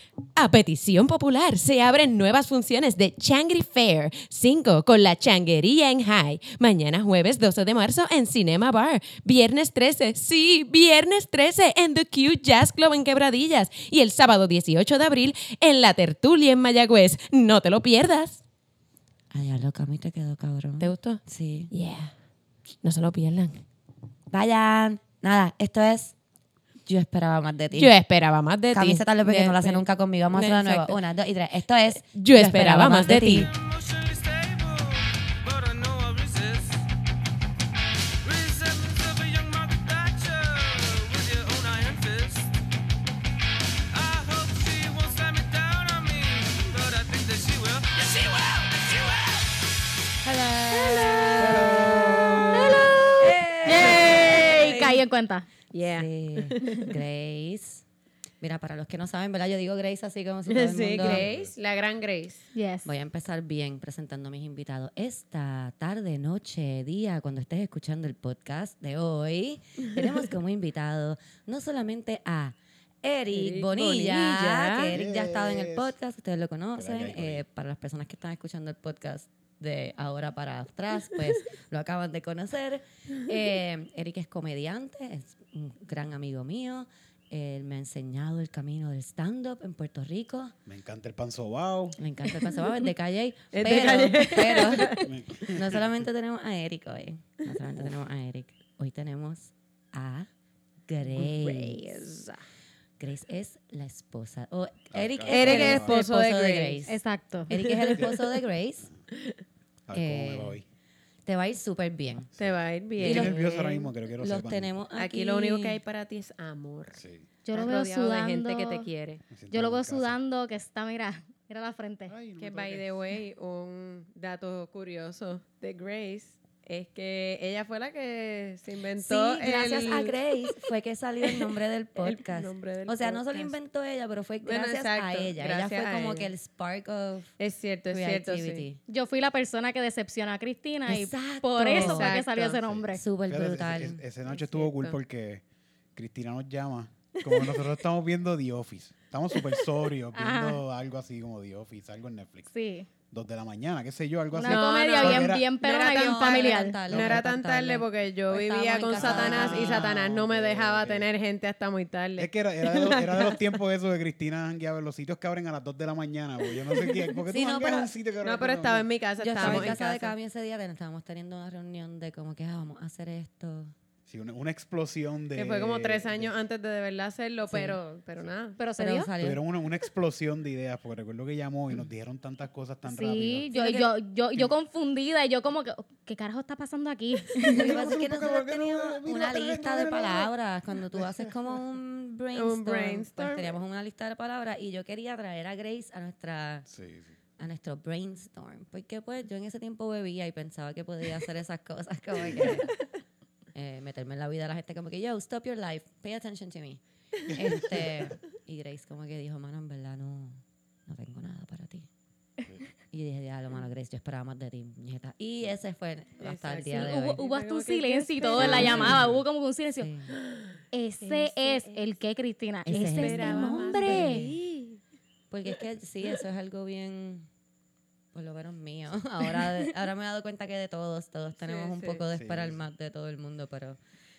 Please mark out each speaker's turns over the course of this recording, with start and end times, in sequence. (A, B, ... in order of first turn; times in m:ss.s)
0:00.3-0:18.4 A
0:19.3-0:21.7 B
0:20.8-0:22.1 A
0:22.8-0:23.6 A
0:24.3-0:26.1 B
0:26.9-0:27.9 B
0:27.7-0:31.0 A
0:28.7-0:33.5 B
0:32.1-0:33.5 A
0:33.4-0:36.9 C
0:38.2-0:42.5 C
0:43.9-0:50.0 C
0:50.2-0:55.0 B
0:50.7-0:51.4 C
0:51.4-0:53.0 D
0:52.6-0:55.5 E
0:53.6-0:54.8 A
0:55.7-0:57.0 A
0:55.9-0:57.8 B
0:58.4-1:01.3 B
1:00.5-1:02.5 A
1:01.0-1:01.5 D
1:02.5-1:02.9 E
1:02.8-1:30.6 B
1:13.3-1:14.9 A
1:14.9-1:15.9 D
1:16.8-1:17.4 D
1:30.7-1:32.0 D
1:32.0-1:40.3 B
1:33.5-1:35.1 A
1:35.0-1:36.0 D
1:40.9-1:42.0 B
1:41.1-1:42.4 A
1:43.0-1:48.9 B
1:44.9-1:46.0 D
1:45.3-1:46.9 A
1:46.9-1:47.6 E
1:47.6-1:48.1 A
1:49.9-1:50.6 D
1:49.9-1:50.6 B
1:51.2-1:52.3 B
1:52.2-1:54.7 D
1:52.4-1:53.9 A
1:53.0-1:53.4 B
1:54.2-1:55.8 B
1:55.0-1:59.2 A
1:56.9-1:57.2 D
1:57.4-1:58.9 E
1:59.3-2:00.2 D
1:59.5-2:02.1 E
2:02.1-2:02.9 D
2:02.4-2:10.5 A
2:09.0-2:17.4 B
2:11.3-2:13.6 A
2:14.4-2:16.3 A
2:17.4-2:18.7 A
2:17.9-2:18.8 B
2:18.9-2:23.0 E
2:20.9-2:22.1 B
2:21.6-2:22.6 A
2:22.6-2:25.4 D
2:22.9-2:24.0 B
2:24.2-2:25.0 A
2:26.0-2:32.5 D
2:27.3-2:27.6 A
2:30.1-2:30.6 E
2:32.5-2:32.9 E
2:33.1-2:35.5 D
2:34.3-2:36.8 E
2:34.4-2:43.6 A
2:35.8-2:39.9 B
2:36.9-2:37.2 D
2:38.9-2:41.1 D
2:42.2-2:49.8 D
2:46.6-2:47.0 A
2:47.3-2:47.9 B
2:48.2-2:50.2 A
2:49.2-2:53.7 B
2:54.1-2:56.3 D
2:55.4-2:58.6 A
2:57.5-2:57.8 B
2:58.6-2:59.1 E
2:58.8-2:59.4 B
2:59.2-3:03.5 D
3:02.9-3:07.8 E
3:03.5-3:03.9 B
3:07.4-3:10.3 D
3:07.4-3:16.7 B
3:10.9-3:11.3 D
3:12.3-3:13.6 A
3:16.7-3:17.1 D
3:17.4-3:22.7 B
3:23.5-3:31.9 B
3:27.4-3:28.1 D
3:32.9-3:37.2 B
3:36.2-3:39.0 A
3:36.7-3:39.9 E
3:38.4-3:39.2 D
3:38.4-3:39.2 B
3:39.8-3:40.2 B
3:40.2-3:41.9 A
3:40.7-3:44.3 E
3:42.7-3:44.4 B
3:42.7-3:44.8 A
3:45.3-3:47.3 B
3:48.1-3:53.8 B
3:51.4-3:52.0 A
3:52.1-3:52.6 D